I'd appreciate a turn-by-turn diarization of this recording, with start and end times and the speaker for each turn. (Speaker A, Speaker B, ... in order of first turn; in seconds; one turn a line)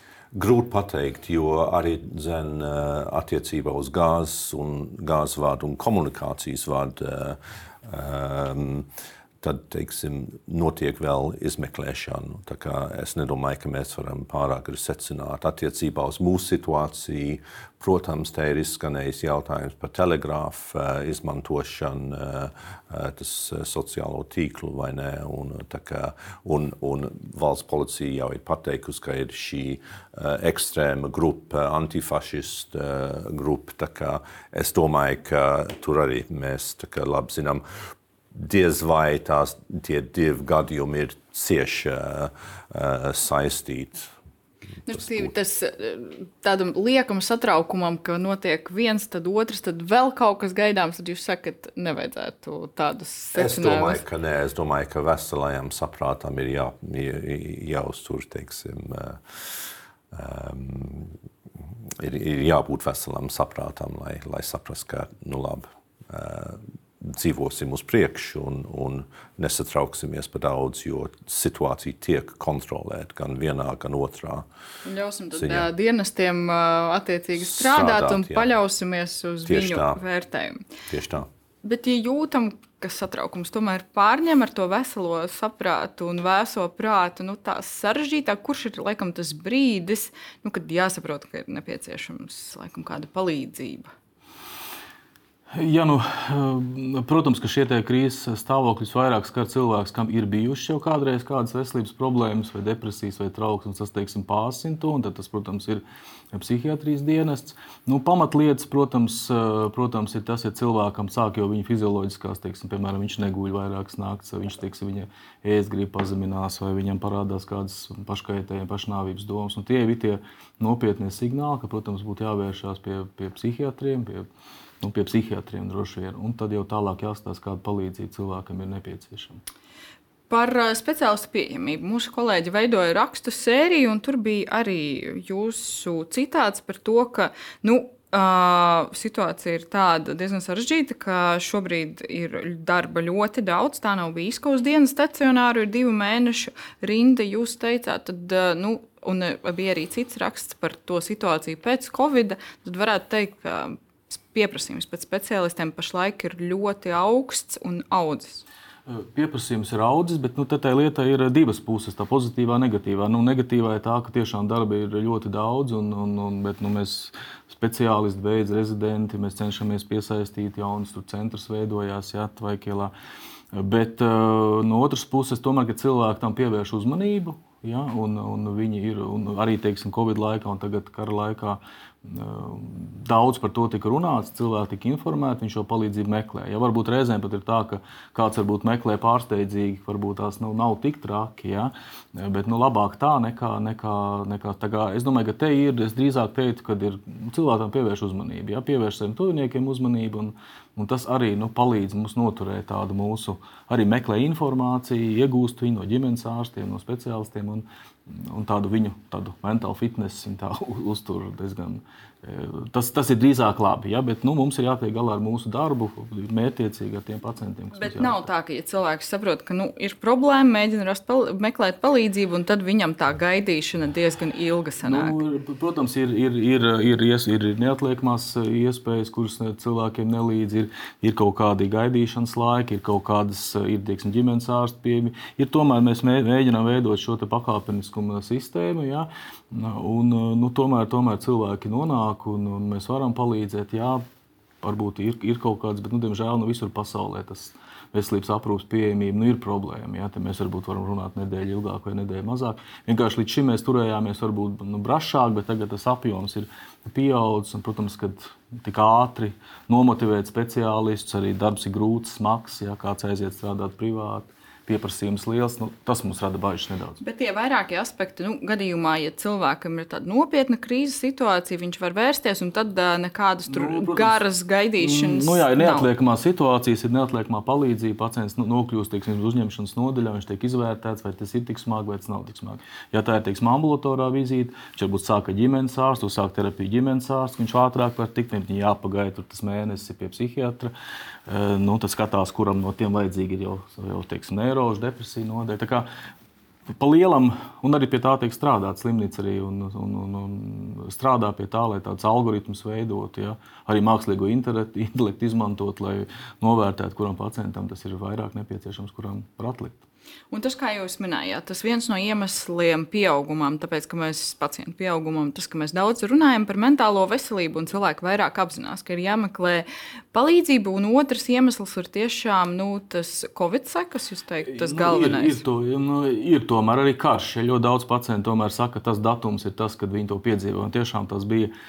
Speaker A: 0.3-8.9
Speaker A: 9.4-37.6
Speaker A: 38.3-44.1
Speaker B: 44.9-54.0
Speaker A: 44.9-45.3
Speaker A: 53.3-61.1
Speaker A: 62.0-74.5
Speaker B: 74.8-80.7
Speaker A: 75.3-75.7
Speaker A: 77.4-78.5
Speaker A: 79.5-80.0
Speaker A: 80.9-81.3
Speaker B: 81.6-93.9
Speaker C: 95.5-124.3
Speaker C: 124.8-129.4
Speaker B: 130.3-158.4
Speaker C: 158.9-172.9
Speaker C: 173.5-218.2
Speaker B: 217.7-225.2
Speaker C: 224.8-244.0
Speaker C: 244.6-267.0
Speaker B: 267.0-275.9
Speaker C: 273.5-274.2
Speaker C: 274.8-290.7
Speaker C: 291.3-295.9
Speaker C: 296.8-309.8
Speaker B: 310.3-325.4
Speaker C: 324.5-331.5